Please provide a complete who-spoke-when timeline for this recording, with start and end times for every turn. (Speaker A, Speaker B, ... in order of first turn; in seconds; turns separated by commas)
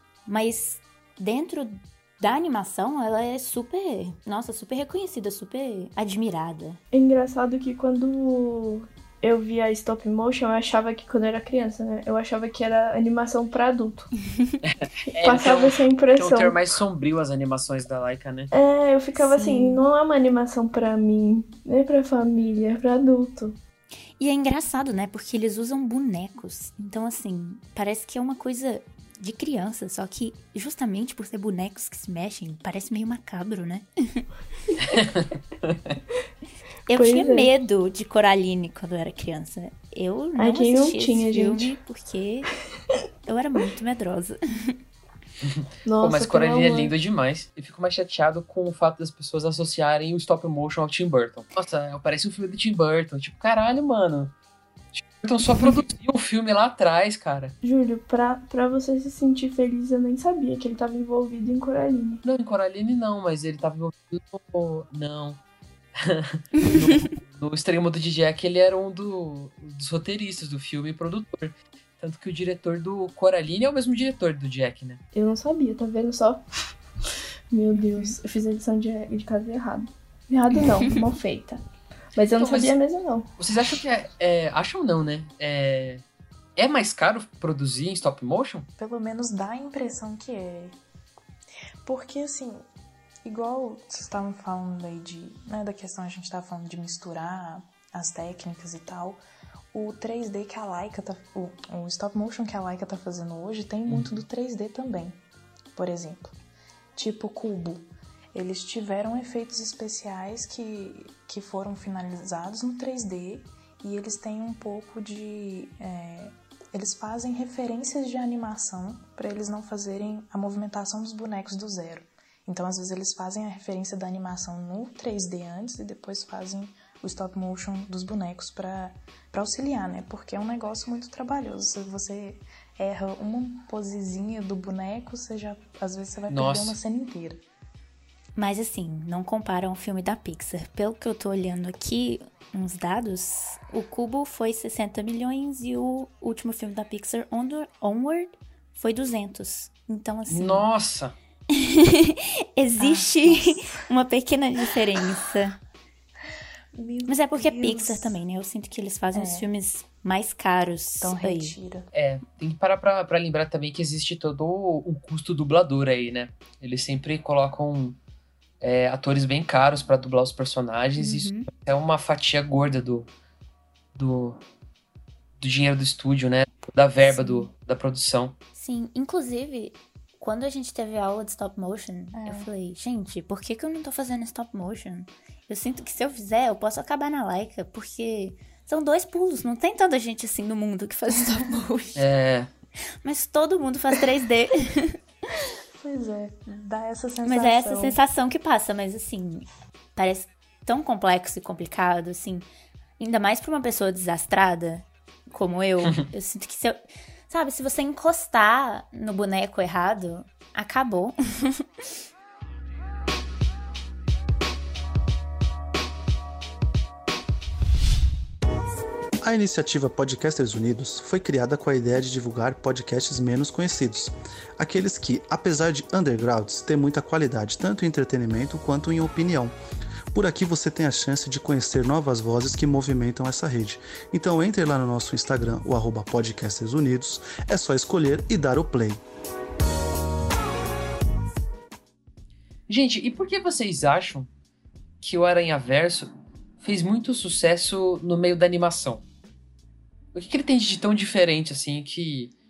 Speaker A: 0.3-6.8, Speaker B: 6.9-14.1, Speaker C: 14.6-18.5, Speaker B: 15.2-16.6, Speaker B: 18.5-23.6, Speaker A: 19.1-19.8, Speaker A: 24.2-34.2, Speaker C: 34.9-36.0, Speaker A: 36.9-42.5, Speaker B: 36.9-37.5, Speaker B: 40.4-41.7, Speaker A: 43.2-44.8, Speaker C: 45.4-54.3, Speaker B: 45.8-46.9, Speaker C: 54.9-57.5, Speaker B: 57.6-62.2, Speaker C: 62.2-65.4, Speaker C: 66.0-75.0, Speaker B: 75.1-76.4, Speaker B: 77.5-81.6, Speaker B: 82.2-83.3, Speaker C: 82.3-82.8, Speaker C: 83.4-86.0, Speaker C: 86.5-88.7, Speaker D: 88.8-90.8, Speaker D: 91.8-92.6, Speaker D: 93.2-99.2, Speaker D: 99.7-105.2, Speaker C: 103.9-104.2, Speaker D: 105.8-106.4, Speaker D: 107.0-137.4, Speaker C: 136.3-136.8, Speaker A: 138.3-150.7, Speaker C: 150.3-151.1, Speaker A: 151.5-155.6, Speaker D: 152.8-153.8, Speaker D: 156.7-158.2, Speaker A: 157.1-161.6, Speaker D: 159.1-159.5, Speaker D: 161.0-161.9, Speaker C: 161.9-168.0, Speaker C: 168.6-173.1, Speaker A: 171.0-171.5, Speaker C: 173.9-174.4, Speaker C: 175.4-178.3, Speaker A: 177.1-177.4, Speaker A: 178.6-192.1, Speaker D: 182.1-182.5, Speaker C: 191.9-192.5, Speaker A: 193.0-195.0, Speaker D: 195.8-198.0, Speaker A: 197.2-202.5, Speaker A: 203.0-206.8, Speaker A: 207.3-211.6, Speaker E: 219.2-229.5, Speaker E: 230.1-239.0, Speaker C: 242.7-244.3, Speaker C: 245.0-249.0, Speaker C: 250.1-252.3